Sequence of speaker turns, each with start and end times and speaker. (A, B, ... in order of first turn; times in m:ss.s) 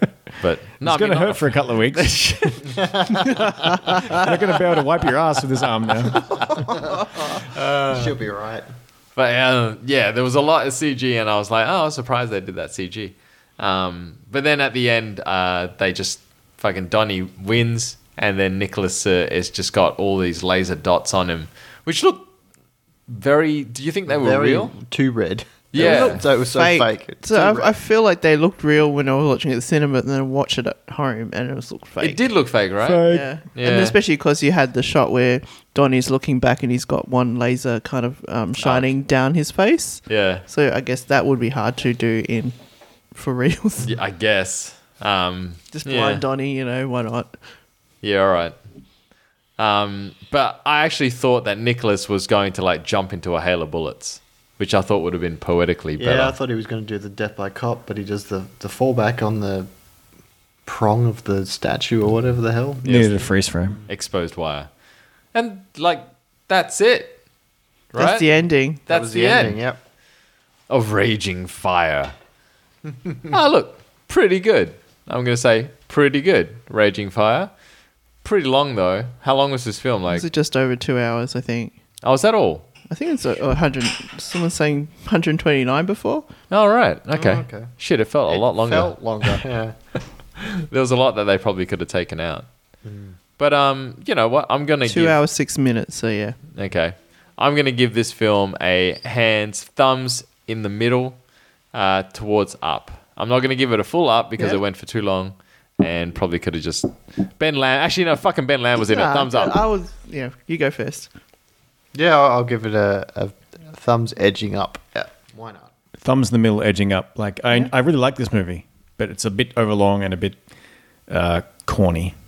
0:00.4-0:02.7 A
0:00.8-0:02.7 B
0:02.8-0:03.3 C
0:04.1-0:06.2 B
0:06.5-0:08.7 C
0:07.3-0:08.1 A
0:09.2-0:22.3 A
0:23.1-0:24.7 A
0:24.1-0:27.8 C
0:25.7-0:26.2 A
0:25.8-0:32.2 D
0:32.0-0:34.0 A
0:32.8-0:33.3 B
0:33.0-0:42.5 D
0:38.6-0:38.9 A
0:40.1-0:40.4 A
0:43.1-0:43.9 D
0:43.8-0:46.2 A
0:45.7-0:47.4 D
0:48.0-0:48.6 A
0:49.6-0:56.4 A
0:56.0-0:59.7 C
1:00.6-1:03.1 C
1:02.8-1:03.3 A
1:02.8-1:03.8 B
1:03.9-1:04.7 A
1:05.3-1:07.2 A
1:07.9-1:08.3 A
1:08.0-1:08.8 D
1:08.9-1:09.6 A
1:08.9-1:09.8 C
1:10.7-1:12.1 A
1:13.3-1:17.5 A
1:18.2-1:20.3 A
1:20.1-1:21.7 D
1:22.0-1:22.7 A
1:22.9-1:26.3 D
1:26.5-1:29.4 A
1:27.1-1:27.8 C
1:28.3-1:29.8 C
1:30.5-1:32.4 A
1:32.8-1:33.2 C
1:33.4-1:35.2 A
1:34.8-1:36.4 D
1:36.5-1:41.2 A
1:41.7-1:49.6 A
1:48.8-1:51.1 D
1:51.9-1:55.7 C
1:56.0-2:00.4 B
2:01.1-2:02.1 B